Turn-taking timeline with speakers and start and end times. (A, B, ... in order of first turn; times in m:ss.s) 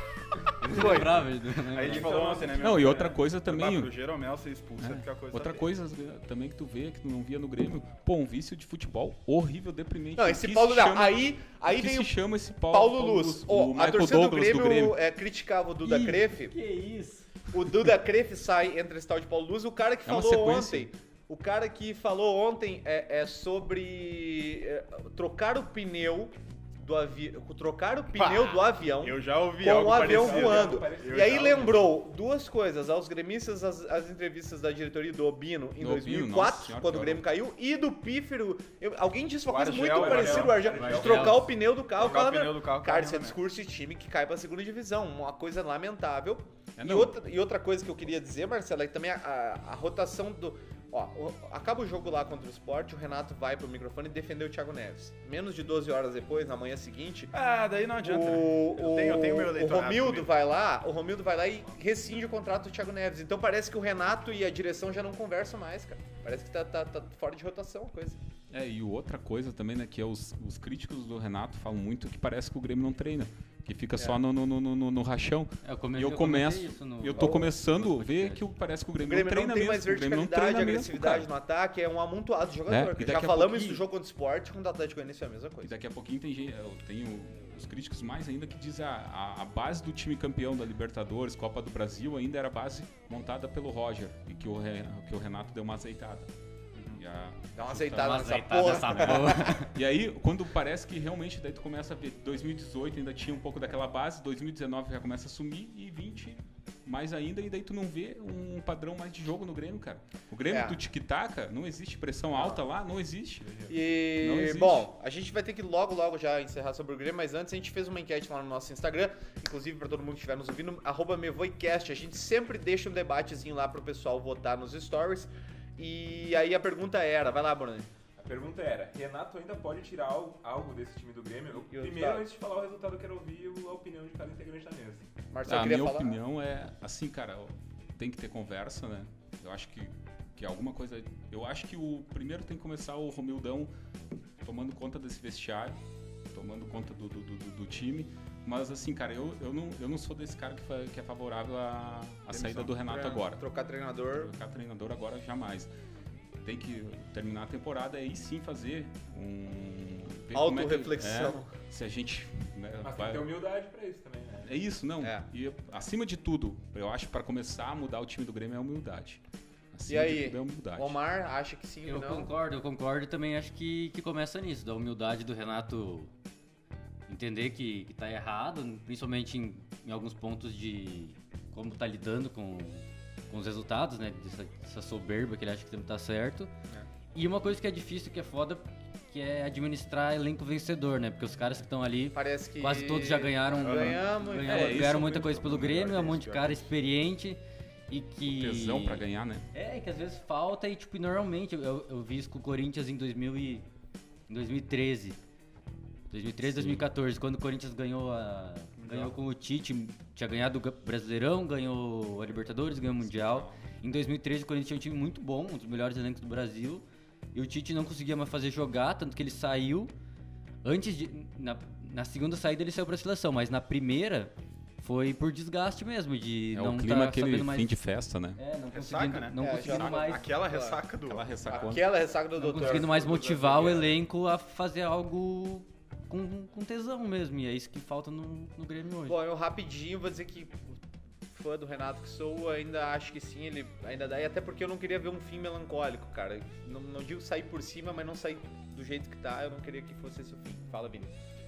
0:00.6-0:02.4 A
0:00.6-0:05.7 B
0:01.8-0:03.2 C
0:02.6-0:03.9 D
0:04.8-0:15.0 D
0:10.2-0:12.1 E
0:12.7-0:16.6 E
0:15.8-0:17.3 A
0:17.5-0:57.3 E
0:20.0-0:20.9 D
0:28.1-0:31.9 B
0:29.9-0:31.9 C
0:35.8-0:37.2 D
0:39.5-0:40.8 B
0:39.8-0:41.5 C
0:40.7-0:41.5 A
0:41.9-0:43.4 B
0:46.8-0:47.2 D
0:57.3-1:00.3 B
0:58.0-1:08.2 E
1:08.5-1:21.3 D
1:15.6-1:18.4 A
1:17.2-1:17.5 E
1:19.0-1:25.7 E
1:22.7-1:23.8 D
1:25.6-1:36.3 D
1:37.0-1:54.9 D
1:37.5-1:39.6 E
1:37.9-1:39.7 A
1:50.5-1:50.8 E
1:52.3-1:52.6 E
1:53.4-1:53.7 C
1:53.7-2:07.9 E
2:08.2-2:15.1 C
2:11.7-2:12.3 E
2:15.3-2:16.2 E
2:15.5-2:23.7 D
2:24.4-2:25.8 D
2:26.3-2:33.4 D
2:32.3-2:32.7 B
2:32.6-2:34.3 E
2:34.1-2:35.7 D
2:36.4-2:43.3 D
2:40.3-2:41.5 E
2:42.8-2:44.6 C
2:44.4-2:49.2 D
2:45.0-2:45.2 E
2:49.7-2:51.0 D
2:49.9-2:52.3 E
2:51.8-2:56.1 A
2:57.1-3:06.5 A
3:07.1-3:23.6 A
3:12.1-3:14.8 E
3:13.6-3:14.0 B
3:14.4-3:15.3 D
3:14.7-3:16.7 B
3:18.2-3:19.5 D
3:24.3-3:25.2 A
3:26.1-3:39.9 A
3:26.4-3:26.8 D
3:28.8-3:29.2 B
3:33.0-3:33.6 D
3:40.6-3:47.7 A
3:46.5-3:48.4 D
3:48.4-3:50.3 A
3:48.7-3:51.5 B
3:49.4-3:50.8 E
3:51.0-3:51.9 D
3:51.5-3:53.9 E
3:52.3-3:59.2 A
3:59.1-4:00.8 E
4:01.3-4:11.1 E